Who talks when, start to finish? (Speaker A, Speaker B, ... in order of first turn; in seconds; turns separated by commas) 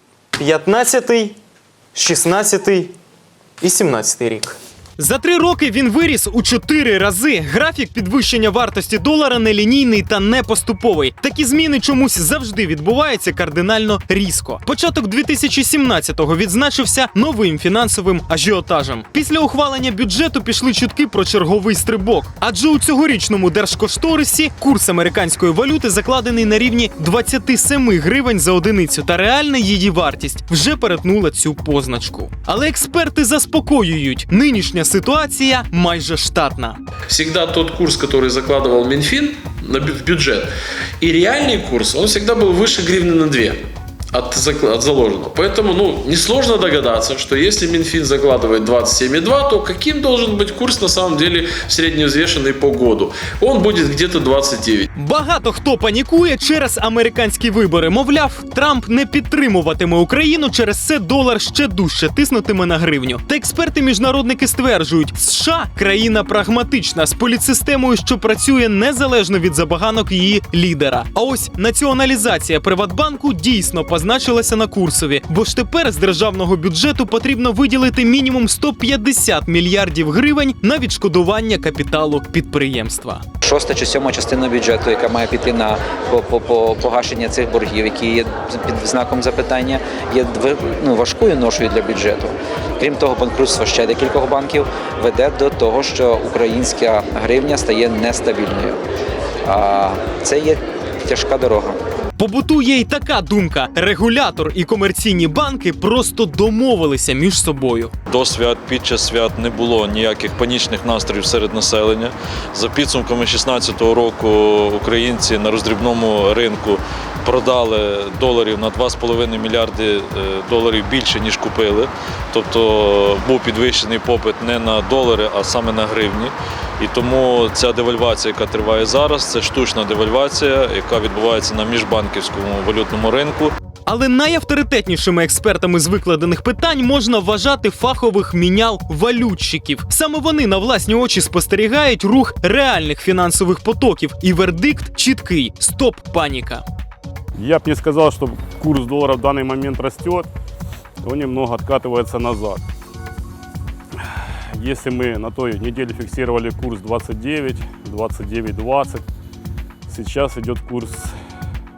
Speaker A: 0.4-1.4, Speaker A: 1.9-2.9, Speaker A: 3.6-36.8, Speaker B: 37.1-40.5, Speaker B: 41.0-43.6, Speaker B: 44.1-54.9, Speaker A: 55.0-83.2, Speaker C: 83.4-98.8, Speaker C: 99.5-101.8, Speaker A: 102.2-107.9, Speaker D: 108.1-133.6, Speaker A: 133.9-146.6, Speaker E: 147.4-150.3, Speaker E: 151.0-152.6, Speaker E: 154.2-159.1, Speaker E: 159.9-161.1